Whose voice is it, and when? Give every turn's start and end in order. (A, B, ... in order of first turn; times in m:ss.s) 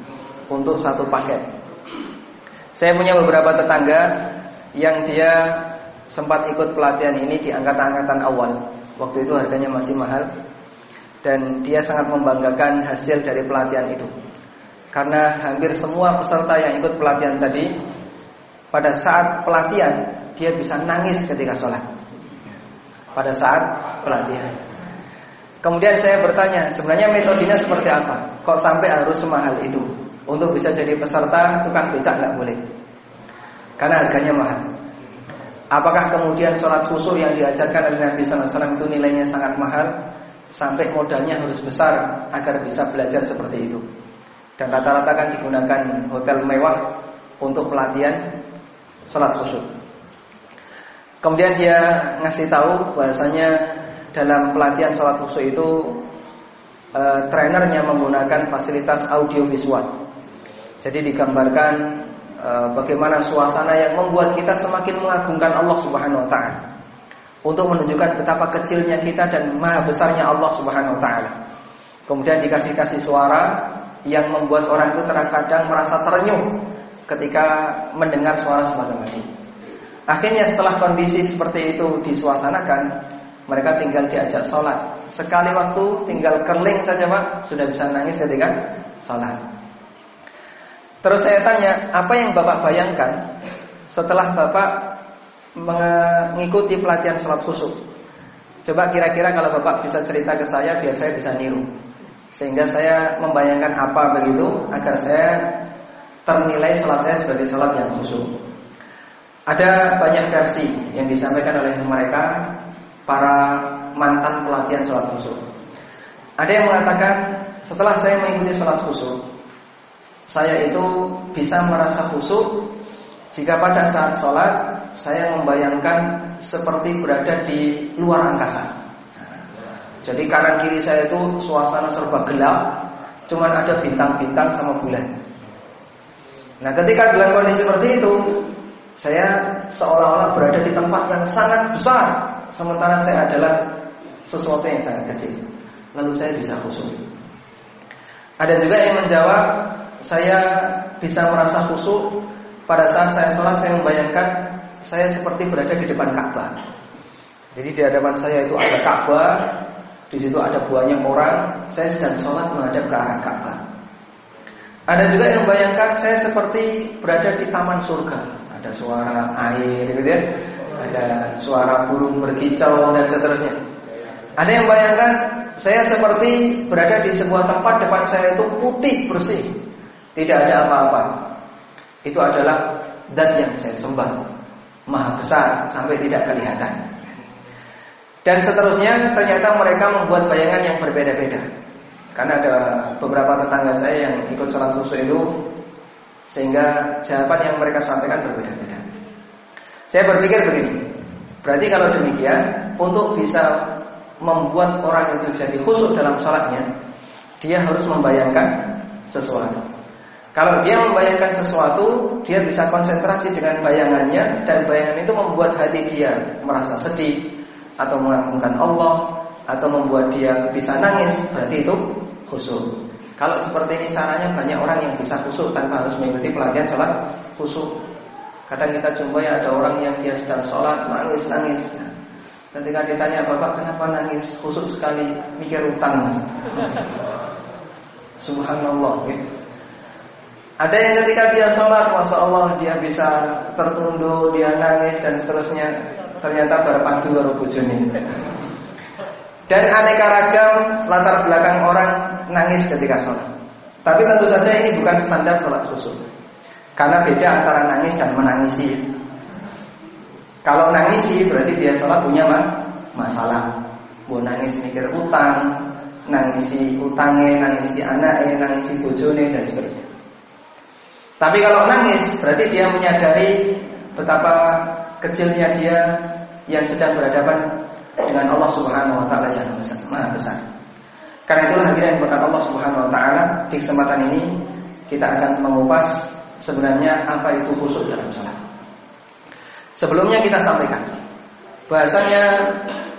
0:00.5-0:01.4 A
0:02.8-0:04.2 A
0:04.8-0:10.3 A
0:11.2-0:14.1 A
0:14.9-0:17.7 A
0:18.7-0:21.8 A
0:23.2-0:24.7 A
0:25.6-0:32.6 A
0:33.8-0:34.6 A
0:35.7-0:39.9 A
0:40.5-0:43.8 A
0:44.6-0:46.9 A
0:47.4-0:48.2 A
0:49.1-0:49.7 A
0:51.2-0:56.0 A
0:57.0-0:59.9 A
1:00.8-1:06.6 A
1:07.5-1:11.3 A
1:12.1-1:16.6 A
1:17.1-1:19.3 A
1:20.1-1:22.9 A
1:23.5-1:29.4 A
1:31.0-1:33.2 A
1:33.9-1:34.9 A
1:35.6-1:37.8 A
1:38.6-1:41.7 A
1:42.3-1:45.5 A
1:46.3-1:48.4 A
1:49.5-1:52.5 A
1:53.1-1:55.4 A
1:56.4-1:59.2 A
2:00.3-2:02.7 A
2:03.3-2:09.3 A
2:10.0-2:15.1 A
2:16.6-2:23.6 A
2:24.3-2:25.4 A
2:26.0-2:27.0 A
2:28.4-2:36.5 A
2:37.5-2:39.5 A
2:40.1-2:43.6 A
2:44.9-2:50.2 A
2:50.8-2:53.6 A
2:54.4-2:59.5 A
3:00.2-3:01.1 A
3:02.0-3:04.2 A
3:04.9-3:06.9 A
3:08.2-3:11.4 A
3:12.2-3:15.4 A
3:16.3-3:18.8 A
3:19.9-3:20.8 A
3:21.4-3:23.7 A
3:24.2-3:26.7 A
3:27.4-3:29.6 A
3:30.3-3:37.3 A
3:37.8-3:47.8 A
3:48.5-3:51.9 A
3:52.5-3:56.9 A
3:58.2-3:59.2 A
4:00.6-4:08.1 A
4:09.5-4:13.3 A
4:13.8-4:16.0 A
4:16.8-4:18.9 A
4:20.4-4:23.5 A
4:24.1-4:25.5 A
4:26.1-4:29.8 A
4:31.2-4:37.4 A
4:38.0-4:40.4 A
4:41.3-4:44.3 A
4:44.9-4:48.4 A
4:49.8-4:50.9 A
4:51.7-4:52.6 A